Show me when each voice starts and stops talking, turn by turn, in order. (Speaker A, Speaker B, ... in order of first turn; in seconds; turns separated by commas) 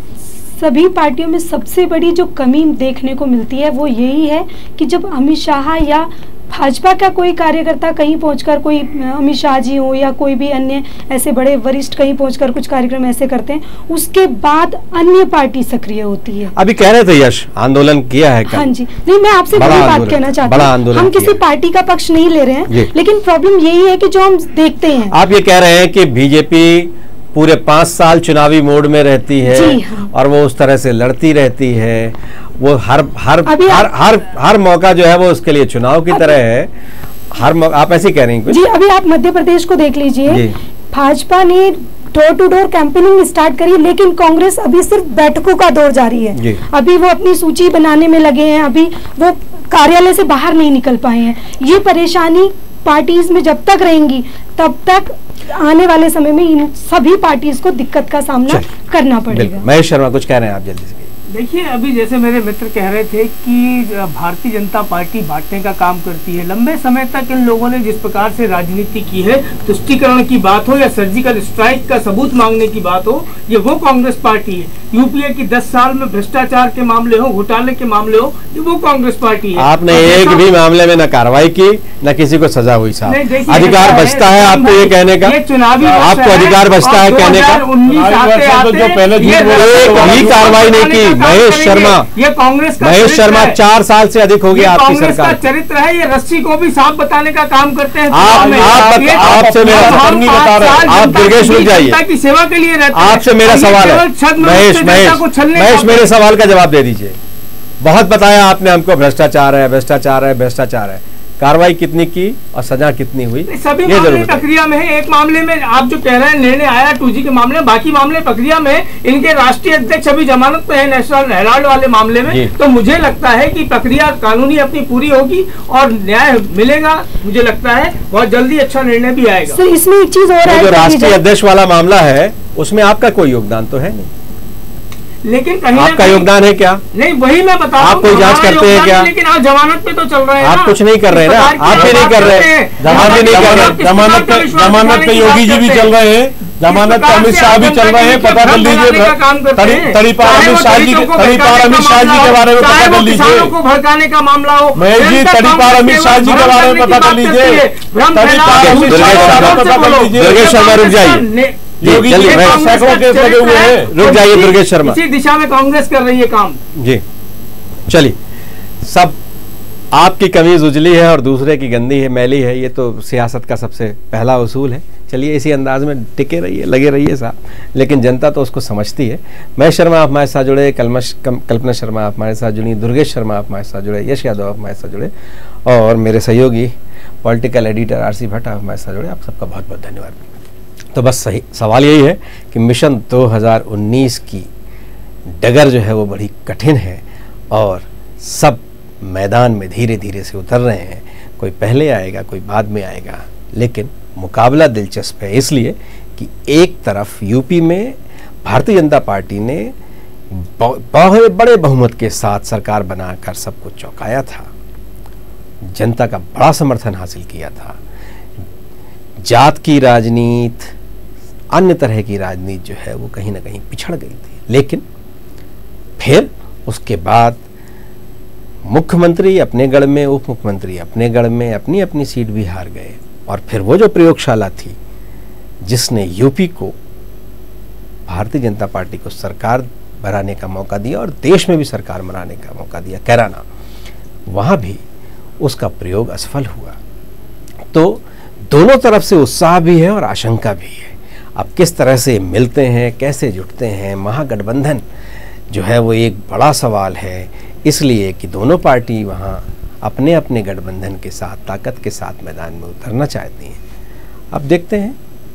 Speaker A: 0.6-16.6, Speaker B: 16.6-18.7, Speaker A: 18.5-25.1, Speaker B: 19.5-21.4, Speaker B: 25.1-36.7, Speaker A: 29.5-30.1, Speaker A: 33.5-33.9, Speaker B: 37.3-38.6, Speaker A: 38.5-59.7, Speaker B: 40.3-40.6, Speaker B: 46.4-46.6, Speaker B: 59.3-61.1, Speaker C: 61.3-80.5, Speaker B: 79.6-85.4, Speaker C: 83.1-93.6, Speaker B: 85.9-87.7, Speaker D: 87.8-90.8, Speaker B: 89.5-92.1, Speaker B: 92.8-95.4, Speaker C: 94.5-106.1, Speaker B: 98.1-102.0, Speaker D: 98.2-101.0, Speaker B: 102.9-107.2, Speaker B: 107.8-114.5, Speaker C: 113.5-129.6, Speaker A: 129.5-131.2, Speaker B: 130.4-134.1, Speaker C: 135.2-136.3, Speaker B: 135.7-136.8, Speaker C: 136.9-145.9, Speaker B: 137.8-139.1, Speaker B: 140.4-143.8, Speaker D: 141.7-153.5, Speaker C: 146.6-166.6, Speaker D: 154.8-160.7, Speaker B: 158.5-161.3, Speaker D: 161.8-164.0, Speaker B: 161.8-162.7, Speaker B: 163.9-165.0, Speaker B: 166.8-167.0, Speaker B: 167.9-168.2, Speaker B: 168.8-169.2, Speaker B: 169.9-185.1, Speaker B: 185.7-190.4, Speaker B: 190.9-194.5, Speaker B: 195.3-209.7, Speaker B: 210.3-214.5, Speaker B: 215.7-217.8, Speaker B: 219.2-220.7, Speaker B: 221.5-224.8, Speaker B: 226.0-227.5, Speaker B: 228.7-234.8, Speaker B: 235.6-236.8, Speaker B: 238.1-243.4, Speaker B: 244.3-244.8, Speaker B: 245.4-246.8, Speaker B: 247.7-254.8, Speaker B: 255.5-263.6, Speaker B: 264.3-265.0